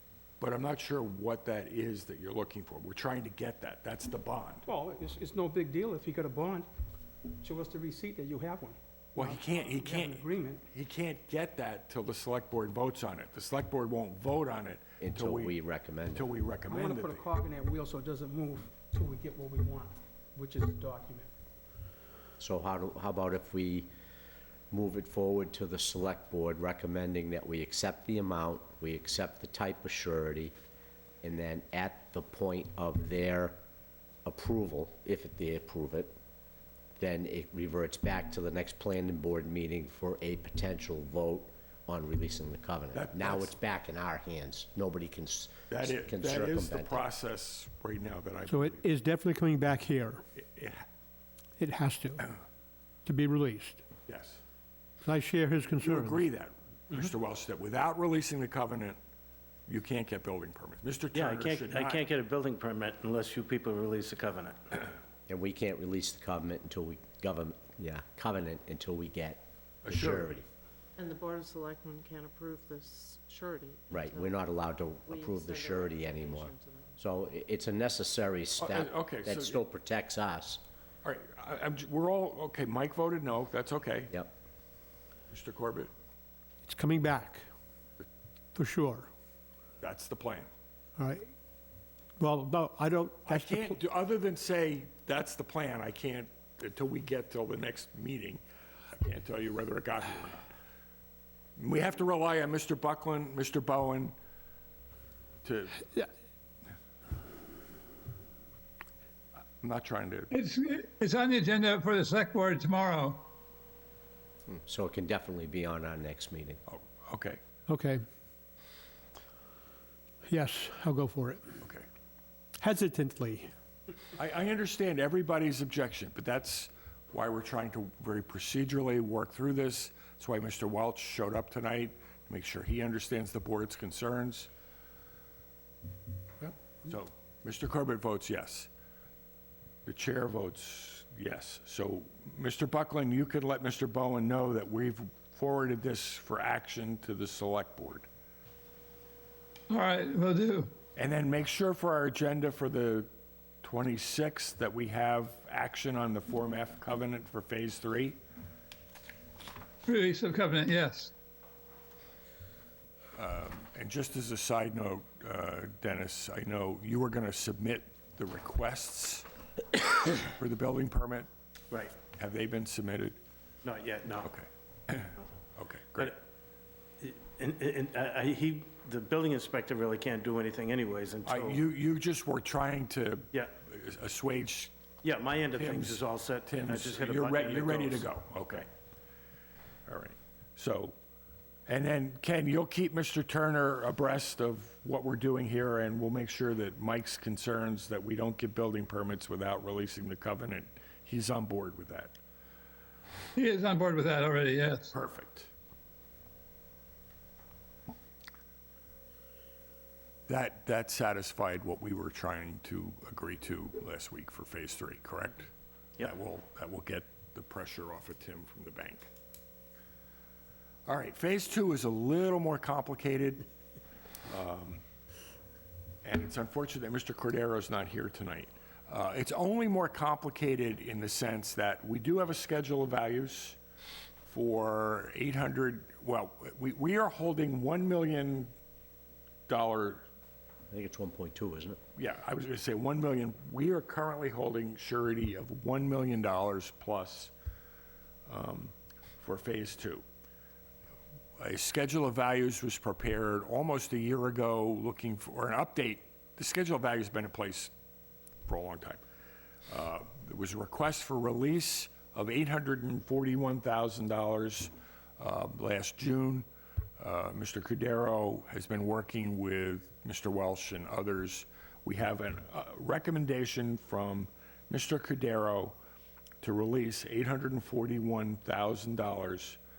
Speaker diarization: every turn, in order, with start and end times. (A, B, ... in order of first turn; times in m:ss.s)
0:00.4-0:04.6 A
0:04.6-0:06.7 B
0:07.4-0:10.6 B
0:09.2-0:15.6 A
0:15.0-0:16.3 C
0:16.1-0:17.2 A
0:16.7-0:21.3 B
0:22.4-0:23.9 C
0:24.7-0:30.5 C
0:31.2-0:33.6 C
0:34.2-0:36.1 C
0:37.0-0:47.1 C
0:42.9-0:43.5 A
0:45.7-0:48.9 A
0:48.5-0:50.2 D
0:50.4-0:50.8 A
0:51.6-0:52.3 D
0:53.0-0:53.8 D
0:54.1-0:54.4 A
0:55.0-0:56.2 D
0:55.8-0:59.0 A
0:59.7-1:02.0 A
1:01.1-1:04.8 E
1:05.3-1:10.4 C
1:09.8-1:10.3 A
1:09.9-1:10.2 E
1:11.0-1:14.4 F
1:13.9-1:20.6 C
1:15.0-1:17.0 F
1:18.6-1:19.6 A
1:21.0-1:24.1 A
1:25.3-1:25.9 A
1:26.6-1:27.4 D
1:28.6-1:29.1 D
1:29.8-1:30.5 A
1:31.0-1:31.3 D
1:32.2-1:33.7 D
1:33.2-1:38.4 A
1:38.9-1:40.4 A
1:41.6-1:44.1 A
1:45.4-1:46.0 A
1:49.6-1:50.3 A
1:50.3-1:53.3 G
1:54.5-1:56.6 C
1:56.7-1:57.4 A
1:57.7-1:58.0 D
2:00.2-2:01.4 D
2:02.6-2:03.5 D
2:04.2-2:14.5 A
2:16.4-2:18.7 A
2:19.8-2:28.1 A
2:29.7-2:30.7 G
2:31.0-2:33.1 A
2:33.6-2:38.2 A
2:39.8-2:41.1 G
2:43.2-2:49.3 A
2:49.8-2:51.3 A
2:52.2-2:53.2 A
2:53.6-2:54.3 E
2:54.2-2:56.2 A
2:57.0-3:01.6 E
3:01.2-3:04.7 A
3:05.0-3:08.1 E
3:05.5-3:08.7 A
3:09.9-3:10.9 A
3:11.7-3:22.1 A
3:23.4-3:24.9 G
3:24.9-3:25.5 A
3:30.3-3:39.1 A
3:40.8-3:43.5 A
3:44.3-3:44.8 A
3:46.0-3:53.6 A
3:54.2-3:58.5 A
3:59.5-4:00.0 A
4:00.7-4:01.8 C
4:02.0-4:07.3 A
4:08.3-4:10.0 A
4:11.4-4:17.7 A
4:18.5-4:19.0 A
4:19.7-4:26.4 A
4:27.0-4:35.8 A
4:36.4-4:39.6 A